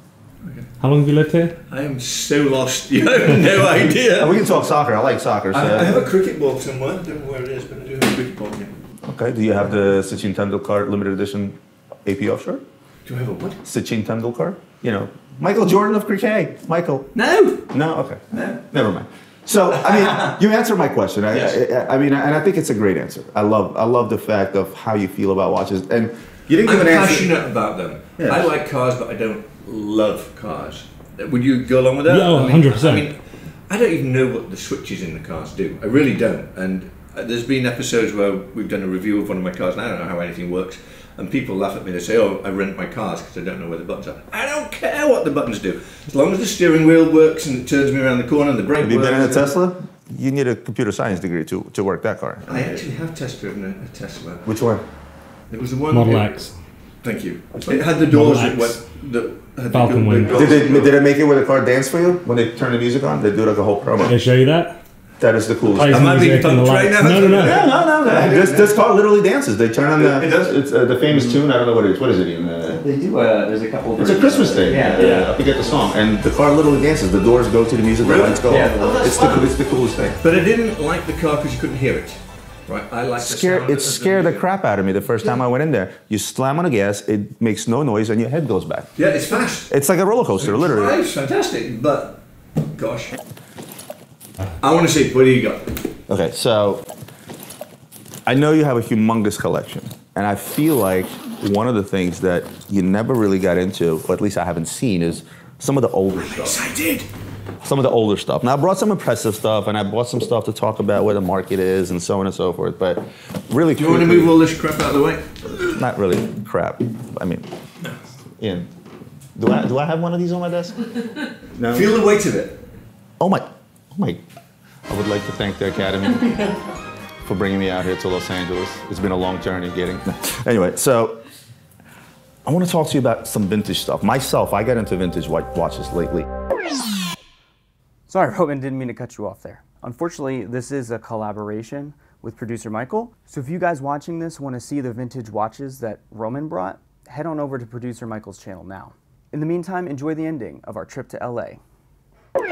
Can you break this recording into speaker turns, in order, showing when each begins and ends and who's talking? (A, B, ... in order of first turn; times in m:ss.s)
0:00.4-0:00.7 A
0:00.8-0:01.6 B
0:01.7-0:04.6 A
0:04.1-0:06.1 C
0:05.5-0:08.7 A
0:09.0-0:12.6 C
0:13.1-0:13.6 A
0:13.6-0:17.1 C
0:17.1-0:17.7 A
0:17.7-0:27.3 C
0:18.3-0:18.6 A
0:19.8-0:20.3 A
0:21.3-0:21.6 A
0:26.6-0:49.5 A
0:28.2-0:28.5 C
0:32.0-0:33.1 B
0:48.8-0:52.8 C
0:52.5-0:54.5 A
0:54.4-0:54.8 C
0:55.5-0:56.3 A
0:55.9-0:56.5 B
0:57.0-1:00.9 A
0:57.9-0:58.8 B
0:59.7-1:00.6 B
1:00.3-1:04.1 C
1:04.0-1:04.8 B
1:05.2-1:06.2 C
1:05.7-1:07.7 B
1:05.9-1:08.7 A
1:07.3-1:12.8 C
1:10.0-1:10.5 A
1:12.9-1:15.2 D
1:13.4-1:15.2 A
1:14.0-1:20.2 C
1:15.0-1:15.3 B
1:18.0-1:19.5 A
1:18.6-1:19.1 D
1:20.2-1:24.5 A
1:23.2-1:28.9 C
1:29.0-1:29.7 A
1:29.6-1:31.0 C
1:30.3-1:33.2 A
1:34.6-1:35.8 A
1:36.1-1:36.8 C
1:38.3-1:46.6 C
1:46.2-1:47.1 A
1:47.6-1:54.4 C
1:53.8-1:55.8 A
1:55.7-1:57.5 C
1:58.4-1:58.7 C
1:59.4-2:00.8 C
2:01.5-2:01.9 C
2:01.7-2:02.6 A
2:03.2-2:04.2 C
2:04.9-2:06.6 C
2:07.2-2:11.2 C
2:12.4-2:16.3 C
2:18.1-2:31.6 E